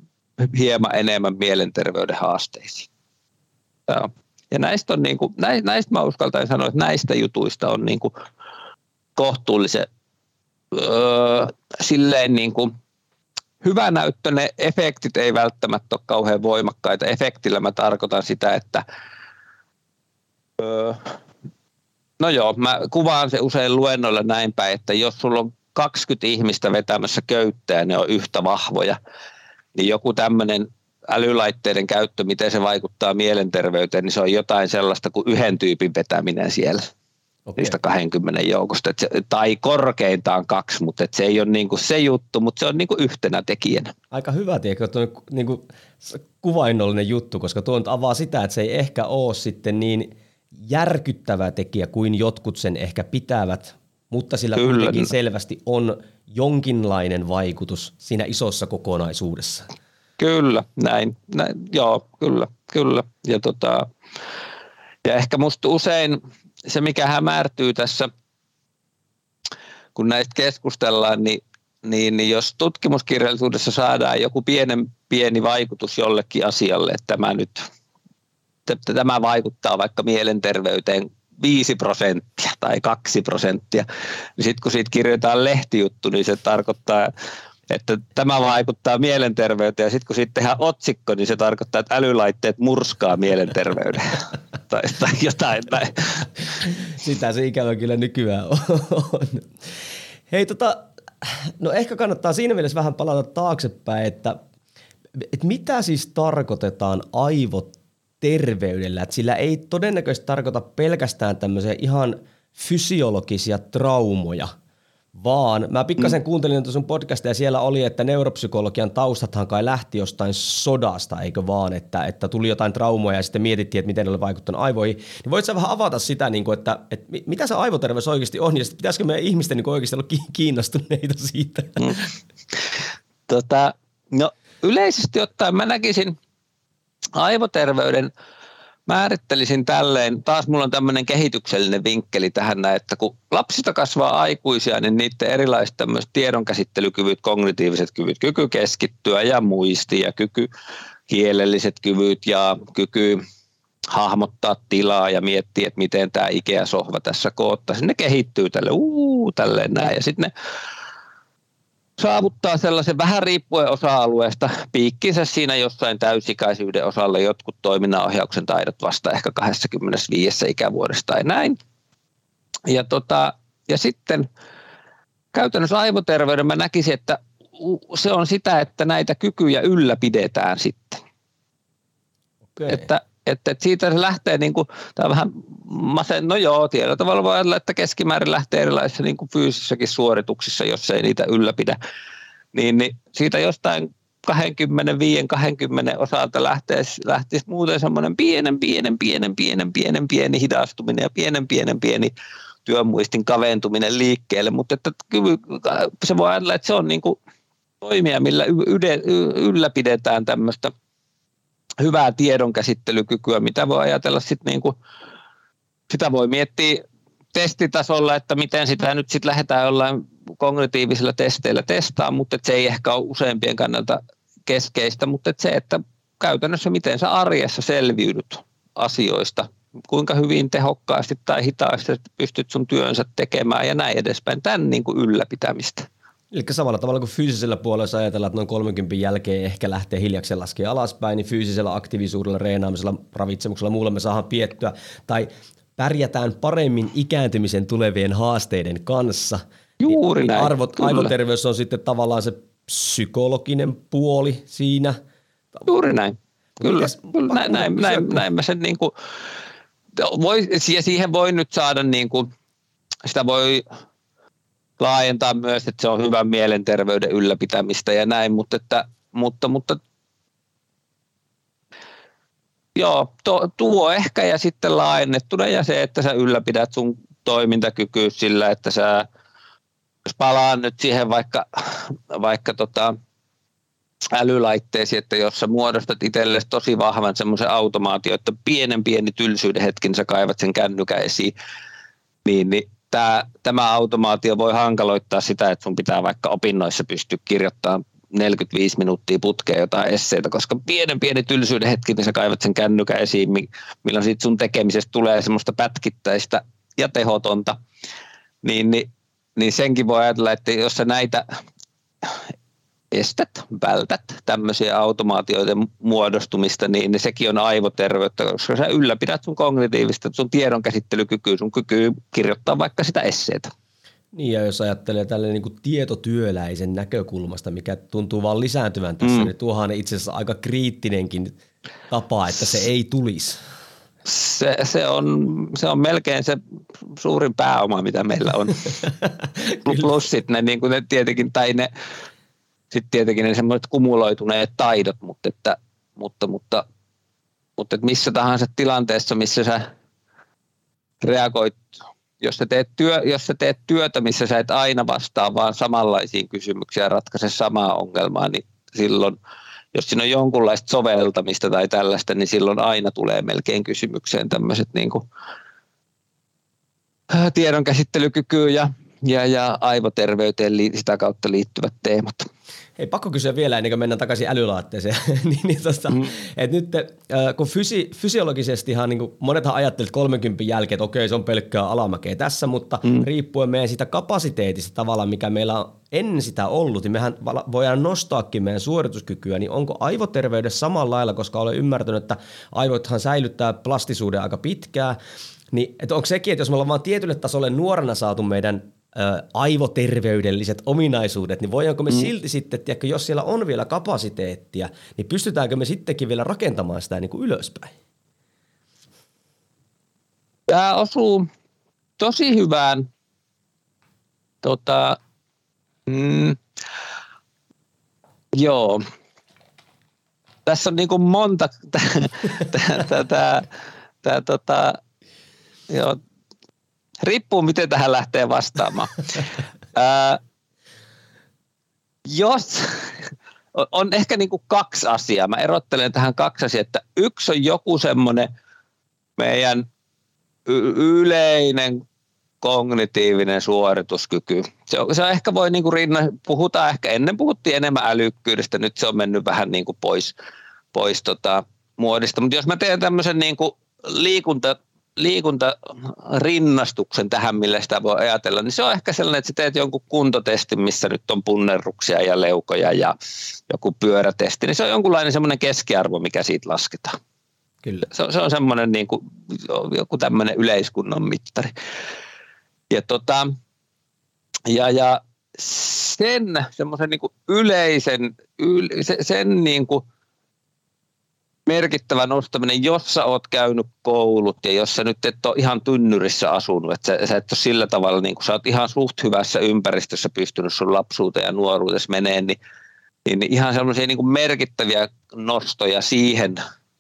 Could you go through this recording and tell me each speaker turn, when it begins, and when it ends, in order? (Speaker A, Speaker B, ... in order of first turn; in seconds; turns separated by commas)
Speaker A: 0.4-2.9, Speaker A: 3.9-8.1, Speaker A: 9.2-9.9, Speaker A: 10.7-12.7, Speaker A: 13.6-18.8, Speaker A: 20.6-21.0, Speaker A: 22.2-29.0, Speaker A: 29.7-36.9, Speaker B: 37.5-37.8, Speaker A: 37.6-43.9, Speaker B: 44.1-59.7, Speaker A: 54.5-55.1, Speaker A: 60.2-63.9, Speaker A: 65.0-68.1, Speaker A: 69.9-77.7, Speaker A: 78.7-83.8, Speaker A: 84.4-87.1, Speaker A: 87.7-96.4, Speaker B: 96.7-99.5, Speaker B: 100.3-104.4, Speaker B: 105.2-114.5, Speaker B: 115.1-131.9, Speaker A: 131.8-132.1, Speaker A: 133.3-136.1, Speaker A: 137.2-138.1, Speaker A: 138.9-150.5, Speaker A: 151.1-153.2, Speaker A: 153.9-160.3, Speaker A: 162.0-171.6, Speaker A: 172.7-174.2, Speaker A: 175.3-181.0, Speaker B: 182.5-182.9, Speaker A: 182.7-191.8, Speaker A: 192.5-202.1, Speaker A: 202.6-207.2, Speaker A: 207.8-210.7, Speaker A: 211.8-214.7, Speaker A: 215.9-216.8, Speaker A: 217.3-235.9, Speaker B: 236.3-255.0, Speaker A: 249.8-251.1, Speaker A: 255.7-258.9, Speaker B: 256.6-258.2, Speaker A: 260.0-262.3, Speaker A: 263.0-263.6, Speaker A: 264.8-269.8, Speaker A: 272.7-279.1, Speaker A: 280.1-282.9, Speaker A: 284.1-291.3, Speaker A: 292.2-307.6, Speaker A: 308.4-311.2, Speaker A: 312.9-323.5, Speaker B: 324.1-331.4, Speaker A: 329.0-329.3, Speaker B: 331.9-333.4, Speaker A: 334.0-336.4, Speaker A: 336.9-338.8, Speaker B: 338.8-339.9, Speaker A: 339.6-341.7, Speaker A: 342.7-346.6, Speaker A: 347.6-349.6, Speaker A: 351.0-351.6, Speaker A: 352.2-359.1, Speaker A: 359.7-365.0, Speaker A: 367.1-372.3, Speaker B: 372.8-395.0, Speaker B: 395.5-407.7, Speaker A: 410.5-411.3, Speaker A: 412.0-412.9, Speaker A: 414.4-415.0, Speaker A: 415.9-416.4, Speaker A: 418.3-418.8, Speaker A: 420.4-423.5, Speaker A: 424.0-424.8, Speaker A: 425.7-426.0, Speaker A: 427.0-430.2, Speaker A: 432.1-432.9, Speaker A: 433.5-438.3, Speaker A: 439.2-439.6, Speaker A: 440.4-441.8, Speaker A: 442.4-450.1, Speaker A: 450.7-462.9, Speaker A: 463.5-467.0, Speaker A: 467.9-471.5, Speaker A: 472.7-473.3, Speaker A: 474.5-479.8, Speaker A: 481.5-492.4, Speaker A: 493.1-496.4